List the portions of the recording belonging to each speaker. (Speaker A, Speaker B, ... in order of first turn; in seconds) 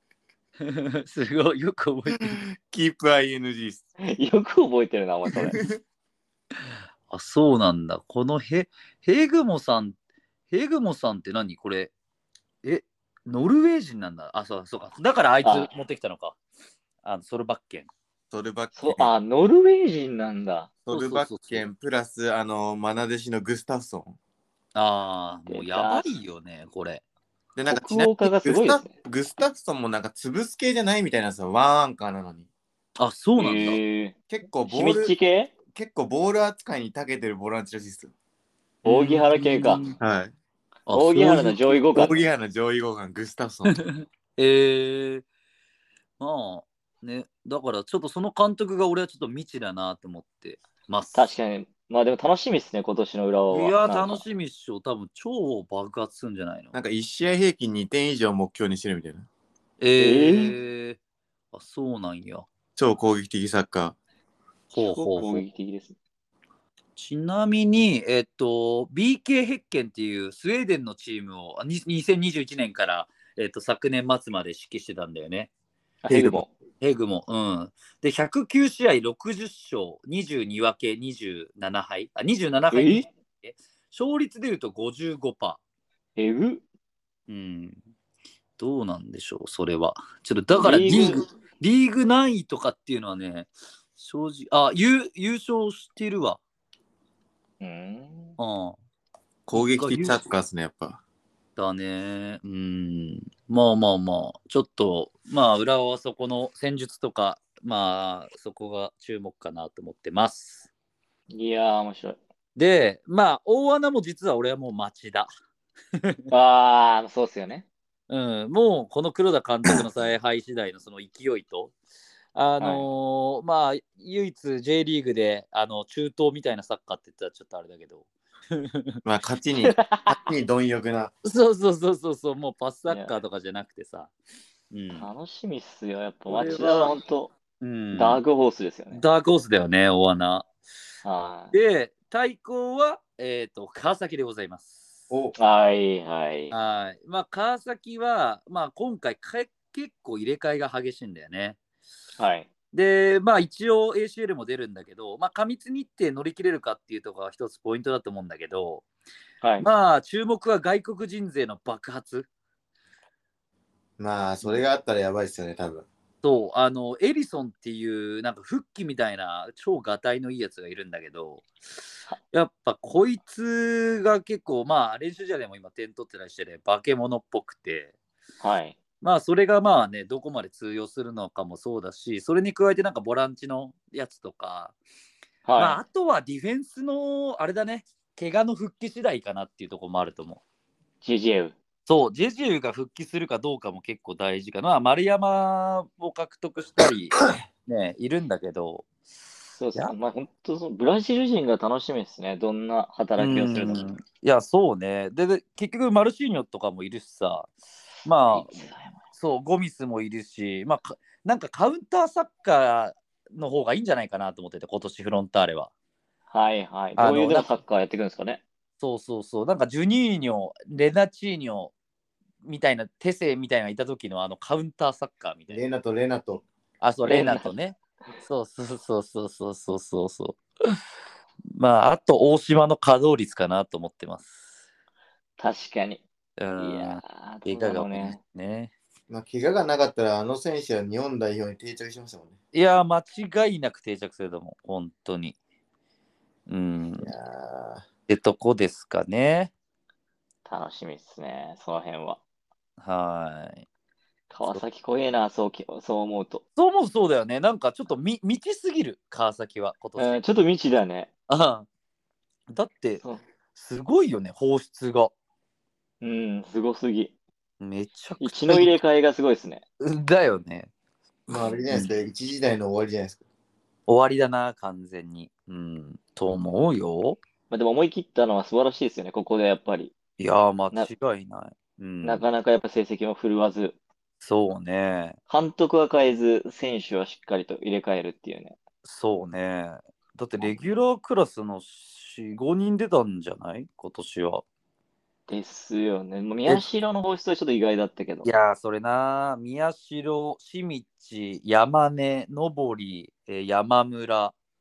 Speaker A: 0.6-2.4, 7.1-10.0, 10.5-11.9, 12.6-16.4, 17.0-17.9, 20.9-21.7, 24.8-27.0, 33.0-33.8, 38.9-40.0, 40.9-41.8, 43.7-45.2, 46.2-51.3, 53.5-56.7, 59.8-61.0, 61.5-62.5, 64.7-65.4, 67.0-75.5, 76.8-85.6, 87.3-87.8, 88.6-96.4, 98.4-98.8, 99.5-100.2, 101.6-110.7, 112.6-115.3, 116.0-116.3, 118.1-121.8, 122.3-129.0, 131.2-134.1, 134.7-135.1, 136.3-136.9, 137.6-138.2, 138.9-140.5, 141.5-145.1, 146.5-151.6, 152.7-158.8, 159.6-162.3, 166.2-171.5, 172.3-177.9, 179.0-184.8, 185.6-190.4, 191.9-198.9, 203.2-207.5, 208.0-215.7, 217.0-217.5, 218.8-221.7, 222.4-225.6, 226.8-230.8, 231.5-234.6, 236.4-238.7, 242.5-245.4, 246.5-247.1, 248.1-249.5, 252.8-253.7, 256.6-260.2, 261.3-261.7, 262.5-263.0, 263.6-265.1, 267.6-268.7, 269.8-270.7, 273.9-277.2, 280.2-282.2, 284.2-285.2, 288.8-294.4, 298.2-304.4
Speaker B: 2.2-3.9, 5.3-5.8, 18.3-19.1, 20.9-24.2, 27.6-32.5, 34.3-35.1, 35.7-38.1, 40.0-40.3, 41.9-43.8, 56.7-59.3, 62.8-64.0, 76.1-76.4, 99.5-101.0, 129.1-131.1, 145.1-145.3, 164.0-165.9, 225.5-226.4, 239.1-242.3, 247.0-247.8, 271.3-273.2
Speaker C: 4.0-5.6, 15.4-15.7, 18.8-20.7, 25.5-26.1, 27.7-28.9, 33.4-34.1, 34.7-35.5, 38.8-39.8, 40.9-42.2, 51.1-54.2, 60.0-60.5, 64.7-66.0, 76.0-76.5, 82.7-83.1, 86.2-86.6, 90.5-91.2, 97.6-98.4, 111.3-112.2, 116.3-117.7, 122.6-122.9, 129.7-130.2, 134.9-137.3, 137.9-139.0, 141.0-141.6, 145.4-146.5, 152.2-152.5, 159.4-159.7, 178.4-178.8, 185.5-185.8, 191.0-191.6, 199.6-203.9, 208.3-209.0, 216.3-218.4, 227.1-227.5, 235.4-236.0, 236.6-238.2, 250.5-252.2, 254.3-256.4, 260.0-261.1, 266.0-267.1, 268.2-269.6, 277.5-279.9, 282.0-283.8, 285.3-288.6, 295.3-298.3